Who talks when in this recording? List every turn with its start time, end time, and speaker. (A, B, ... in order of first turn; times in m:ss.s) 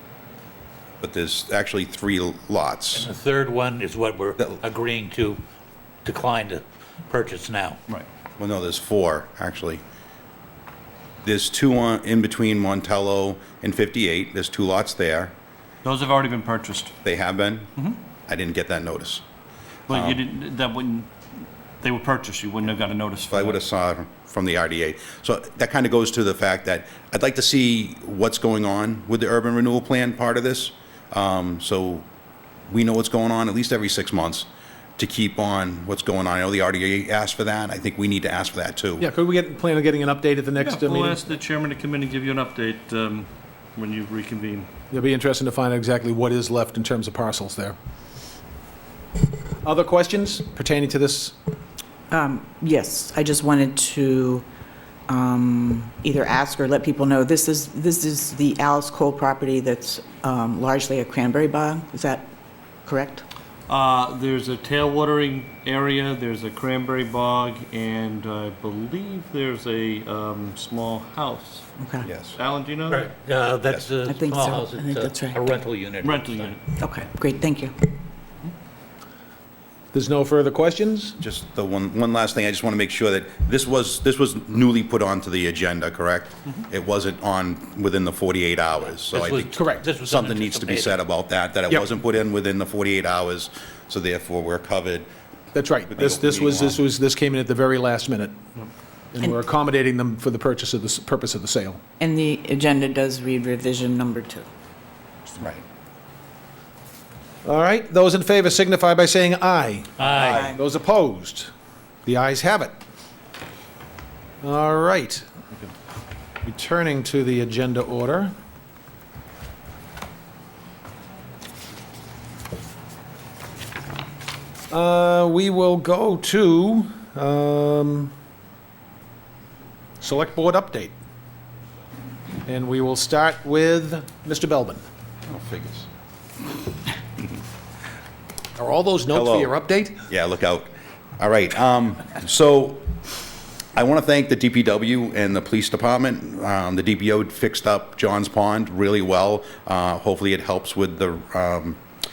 0:01.0-0:03.1 A
0:02.9-0:05.4 B
0:06.0-0:07.8 B
0:08.4-0:09.8 A
0:11.2-0:15.3 A
0:15.8-0:16.9 C
0:17.0-0:17.7 A
0:18.3-0:19.2 A
0:19.9-0:21.1 C
0:19.9-0:20.2 A
0:21.8-0:23.6 C
0:23.3-0:32.0 A
0:32.7-0:34.5 A
0:35.0-0:39.1 A
0:39.0-0:41.2 D
0:40.6-0:44.7 C
0:44.9-0:47.8 D
0:49.6-0:51.3 D
0:52.1-0:54.4 E
0:55.1-1:02.2 E
1:02.8-1:03.2 E
1:03.7-1:11.7 C
1:11.8-1:12.1 E
1:12.0-1:12.3 A
1:12.3-1:13.1 C
1:12.9-1:16.5 B
1:14.0-1:15.6 E
1:16.0-1:16.6 C
1:16.8-1:18.0 E
1:19.9-1:21.2 D
1:21.2-1:35.1 A
1:29.0-1:30.9 B
1:29.6-1:29.8 D
1:35.5-1:38.4 D
1:35.9-1:36.8 A
1:39.1-1:41.8 D
1:42.0-1:44.5 E
1:47.4-1:51.5 D
1:50.0-1:50.5 B
1:50.1-1:50.6 E
1:52.0-1:52.7 D
1:54.4-1:55.2 D
1:56.4-1:58.3 D
2:04.7-2:08.1 D
2:10.0-2:10.9 D
2:12.4-2:14.8 D
2:15.3-2:15.9 A
2:18.6-2:20.0 D
2:19.1-2:19.5 A
2:20.1-2:22.9 A
2:23.7-2:31.8 A